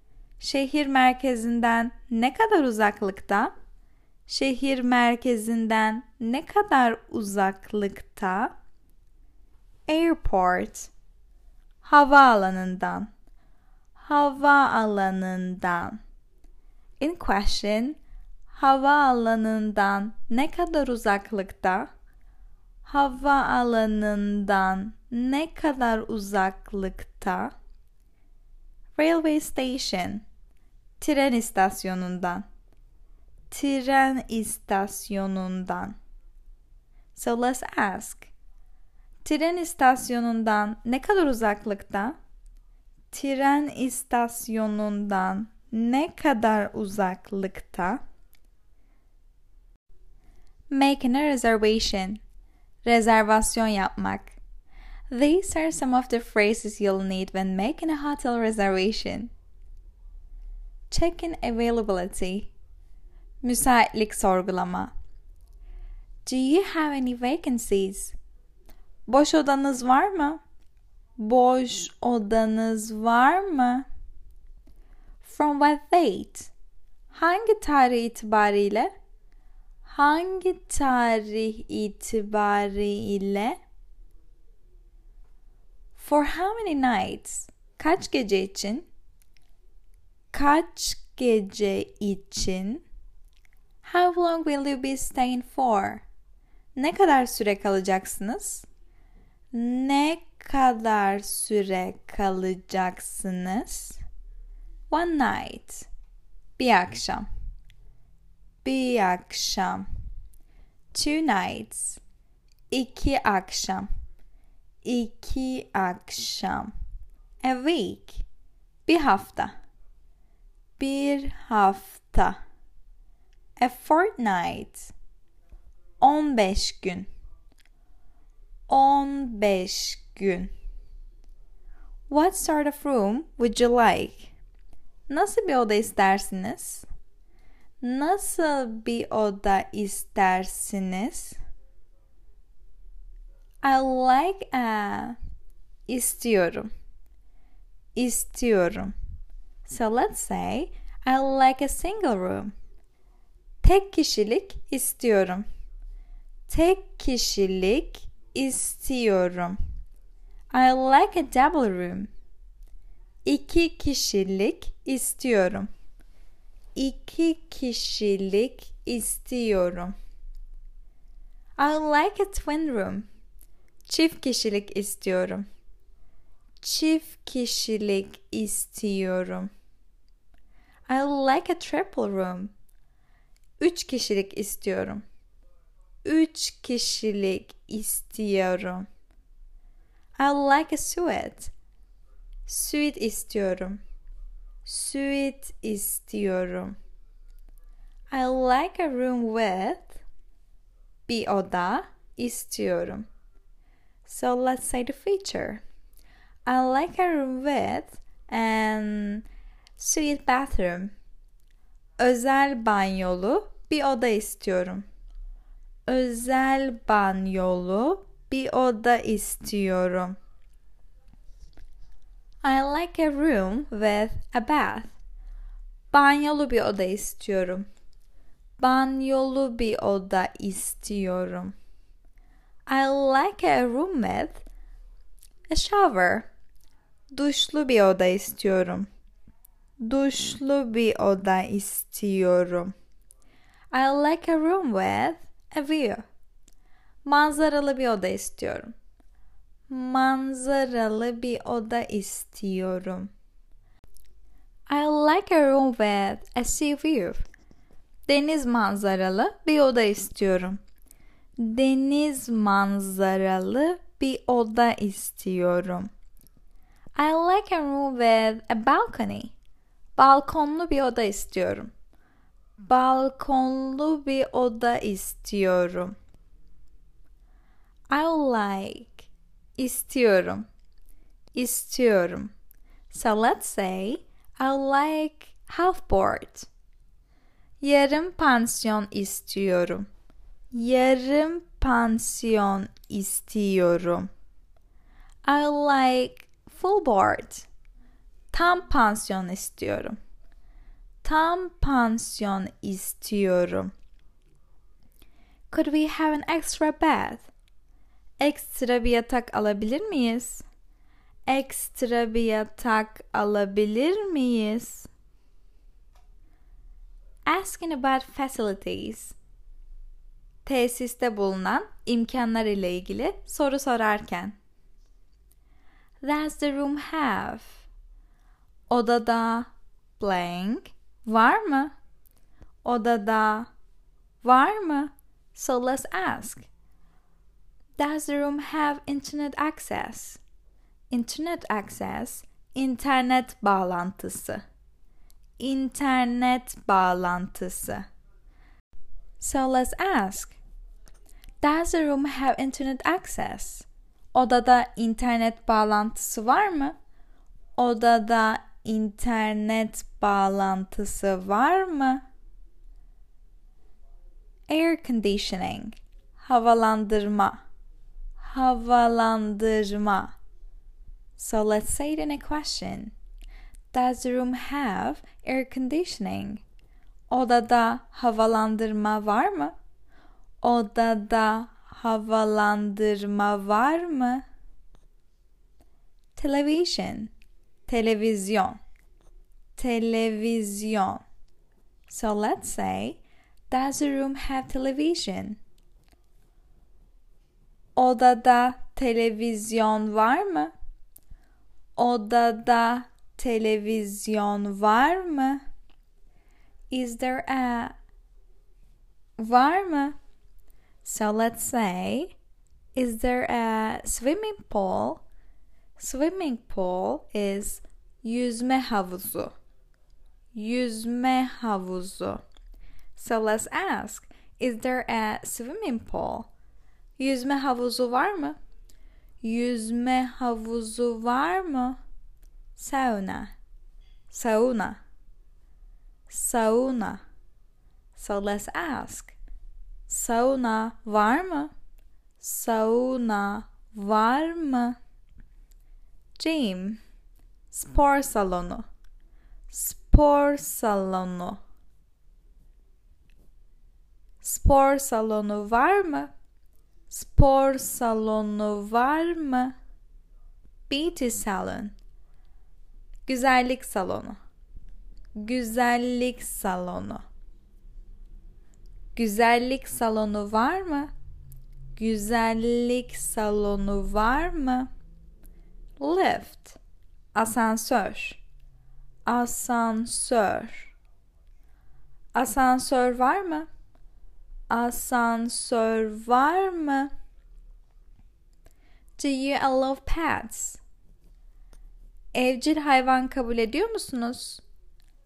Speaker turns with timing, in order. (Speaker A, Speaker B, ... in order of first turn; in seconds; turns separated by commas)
Speaker A: 0.4-3.5, Speaker A: 4.3-8.5, Speaker A: 9.9-10.9, Speaker A: 11.8-13.1, Speaker A: 14.0-16.0, Speaker A: 17.0-18.0, Speaker A: 18.5-21.9, Speaker A: 22.8-27.5, Speaker A: 28.9-30.2, Speaker A: 31.0-32.5, Speaker A: 33.5-36.0, Speaker A: 37.1-38.3, Speaker A: 39.2-42.2, Speaker A: 43.1-48.0, Speaker A: 50.7-52.2, Speaker A: 52.8-54.4, Speaker A: 55.1-59.3, Speaker A: 60.9-62.5, Speaker A: 63.4-64.9, Speaker A: 66.2-68.2, Speaker A: 69.1-70.4, Speaker A: 71.2-73.8, Speaker A: 75.2-76.5, Speaker A: 77.1-78.9, Speaker A: 79.8-83.6, Speaker A: 85.9-88.9, Speaker A: 90.3-92.8, Speaker A: 93.8-96.0, Speaker A: 96.7-98.7, Speaker A: 99.5-104.0, Speaker A: 104.9-105.9, Speaker A: 106.6-107.3, Speaker A: 108.6-109.9, Speaker A: 110.9-112.0, Speaker A: 112.7-113.9, Speaker A: 114.8-116.7, Speaker A: 117.4-118.2, Speaker A: 118.8-119.5, Speaker A: 120.8-122.4, Speaker A: 123.6-124.9, Speaker A: 126.0-127.1, Speaker A: 128.7-130.5, Speaker A: 132.1-134.3, Speaker A: 135.1-136.9, Speaker A: 137.8-141.4, Speaker A: 143.6-145.2, Speaker A: 145.9-146.7, Speaker A: 147.9-148.9, Speaker A: 149.7-152.5, Speaker A: 153.6-155.4, Speaker A: 156.5-159.6, Speaker A: 160.5-162.1, Speaker A: 163.2-165.7, Speaker A: 166.7-169.9, Speaker A: 171.6-173.1, Speaker A: 173.8-175.4, Speaker A: 176.6-179.5, Speaker A: 180.9-182.5, Speaker A: 183.6-185.0, Speaker A: 186.0-188.9, Speaker A: 190.2-191.5, Speaker A: 192.4-193.8, Speaker A: 194.6-196.8, Speaker A: 198.1-200.0, Speaker A: 201.1-203.1, Speaker A: 204.1-205.6, Speaker A: 206.4-209.2, Speaker A: 209.8-210.9, Speaker A: 212.0-214.8, Speaker A: 215.9-220.2, Speaker A: 222.4-224.9, Speaker A: 225.9-227.7, Speaker A: 228.6-231.5, Speaker A: 232.7-234.4, Speaker A: 235.5-236.3, Speaker A: 237.1-238.9, Speaker A: 239.8-242.7, Speaker A: 243.7-246.0, Speaker A: 247.0-248.7, Speaker A: 249.7-253.1, Speaker A: 254.7-257.2, Speaker A: 258.1-260.6, Speaker A: 261.4-265.9, Speaker A: 266.9-269.3, Speaker A: 270.0-271.7, Speaker A: 272.6-275.9, Speaker A: 277.9-280.5, Speaker A: 281.3-282.3, Speaker A: 282.9-286.5, Speaker A: 287.6-289.9, Speaker A: 290.5-294.1, Speaker A: 295.2-297.5, Speaker A: 298.3-300.0, Speaker A: 301.0-303.7, Speaker A: 305.5-307.3, Speaker A: 308.2-310.4, Speaker A: 311.3-314.9, Speaker A: 317.2-319.2, Speaker A: 320.4-324.3, Speaker A: 326.0-327.6, Speaker A: 328.7-331.7, Speaker A: 332.6-333.5, Speaker A: 334.2-336.5, Speaker A: 337.8-340.2, Speaker A: 340.9-344.4, Speaker A: 345.4-347.9, Speaker A: 349.2-350.4, Speaker A: 351.4-356.7, Speaker A: 357.6-362.0, Speaker A: 364.5-367.4, Speaker A: 368.2-370.1, Speaker A: 371.2-372.9, Speaker A: 373.7-376.4, Speaker A: 377.1-379.5, Speaker A: 380.4-384.2, Speaker A: 386.1-387.1, Speaker A: 387.7-388.6, Speaker A: 389.6-391.0, Speaker A: 391.9-395.4, Speaker A: 397.8-400.5, Speaker A: 401.8-405.4, Speaker A: 406.7-407.8, Speaker A: 409.2-409.9, Speaker A: 410.8-412.1, Speaker A: 412.7-415.0, Speaker A: 415.8-419.3, Speaker A: 420.3-422.2, Speaker A: 422.9-426.3, Speaker A: 427.0-428.4, Speaker A: 429.2-431.8, Speaker A: 432.6-433.3, Speaker A: 434.1-434.8, Speaker A: 436.1-437.0, Speaker A: 437.9-439.1, Speaker A: 439.9-441.5, Speaker A: 442.2-444.8, Speaker A: 446.2-446.8, Speaker A: 447.5-448.6, Speaker A: 449.5-451.4, Speaker A: 454.2-456.1, Speaker A: 456.9-459.5, Speaker A: 460.7-461.7, Speaker A: 463.1-464.2, Speaker A: 465.2-467.0, Speaker A: 468.9-470.9, Speaker A: 471.8-474.7, Speaker A: 475.8-476.6, Speaker A: 477.1-478.2, Speaker A: 479.1-480.7, Speaker A: 482.1-483.5, Speaker A: 484.5-486.9, Speaker A: 489.0-490.6, Speaker A: 492.1-494.4